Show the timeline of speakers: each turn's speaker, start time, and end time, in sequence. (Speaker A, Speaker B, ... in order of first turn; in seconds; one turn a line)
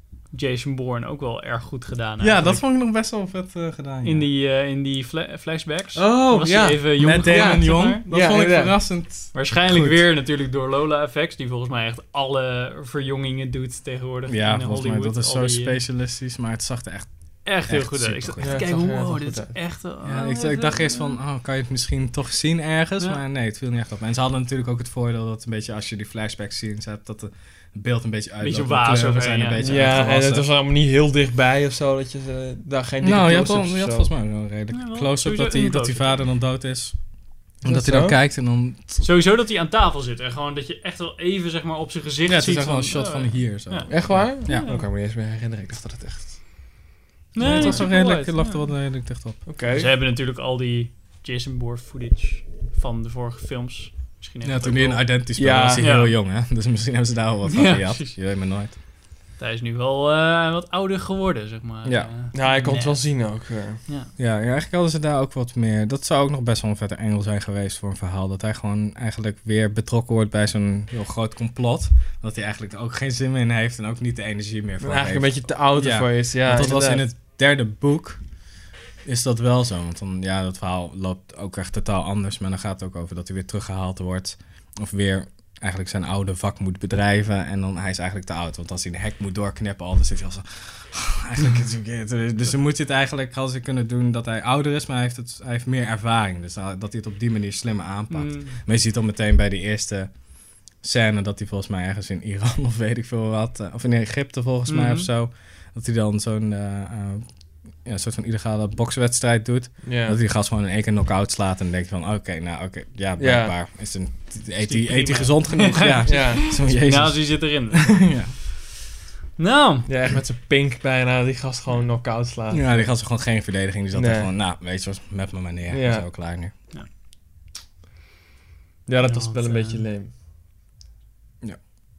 Speaker A: 0.3-2.6
Speaker B: 2.2-4.3
Speaker A: 4.0-8.0
Speaker C: 5.9-8.9
Speaker B: 7.0-10.0
Speaker A: 9.3-15.8
Speaker B: 14.3-18.6
Speaker A: 17.4-21.2
Speaker C: 18.4-19.6
Speaker B: 20.0-30.5
Speaker A: 28.4-29.6
Speaker C: 29.6-34.1
Speaker B: 33.0-37.0
Speaker A: 34.7-36.2
Speaker B: 37.6-39.0
Speaker C: 37.6-38.2
Speaker A: 39.0-44.9
Speaker B: 42.2-44.7
Speaker C: 43.9-46.4
Speaker A: 47.3-48.6
Speaker B: 47.4-49.4
Speaker C: 47.4-47.9
Speaker C: 49.5-49.9
Speaker A: 49.7-55.1
Speaker B: 54.4-58.7
Speaker C: 55.4-55.8
Speaker A: 55.8-56.1
Speaker A: 57.5-58.1
Speaker A: 59.4-63.0
Speaker B: 61.8-62.1
Speaker C: 62.3-63.8
Speaker B: 64.2-78.2
Speaker C: 74.8-77.0
Speaker B: 79.0-100.1
Speaker A: 98.1-98.6
Speaker B: 100.7-118.3
Speaker A: 104.7-105.1
Speaker C: 109.8-110.2
Speaker C: 113.2-113.5
Speaker A: 114.6-118.1
Speaker C: 116.0-116.5
Speaker A: 119.4-119.9
Speaker C: 119.8-122.9
Speaker B: 122.5-126.5
Speaker C: 123.9-124.3
Speaker C: 125.7-126.1
Speaker C: 128.9-130.1
Speaker A: 129.0-129.8